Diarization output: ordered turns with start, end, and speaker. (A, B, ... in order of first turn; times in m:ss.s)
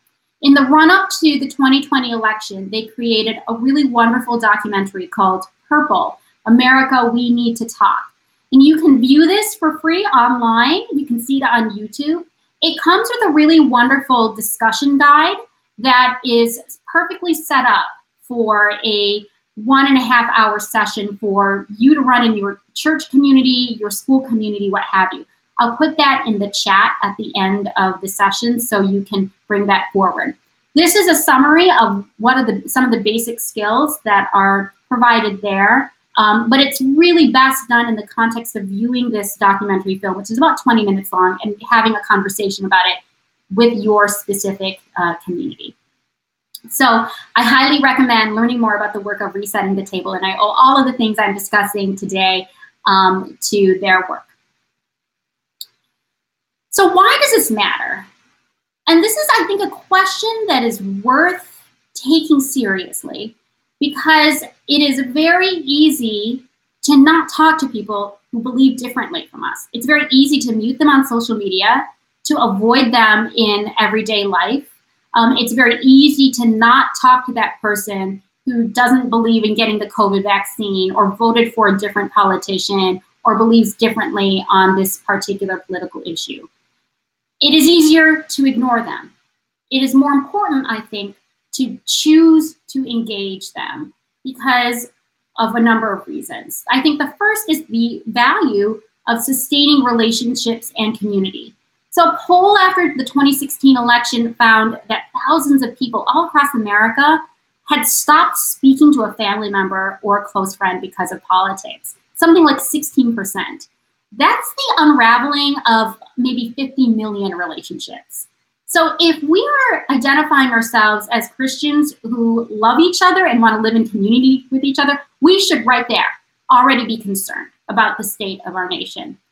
0:00.4-0:43.0 A
0:43.5-0:45.8 A
0:46.7-0:54.3 A
0:56.7-0:58.1 A
0:58.9-1:26.5 A
1:27.4-1:29.1 A
1:29.7-2:09.2 A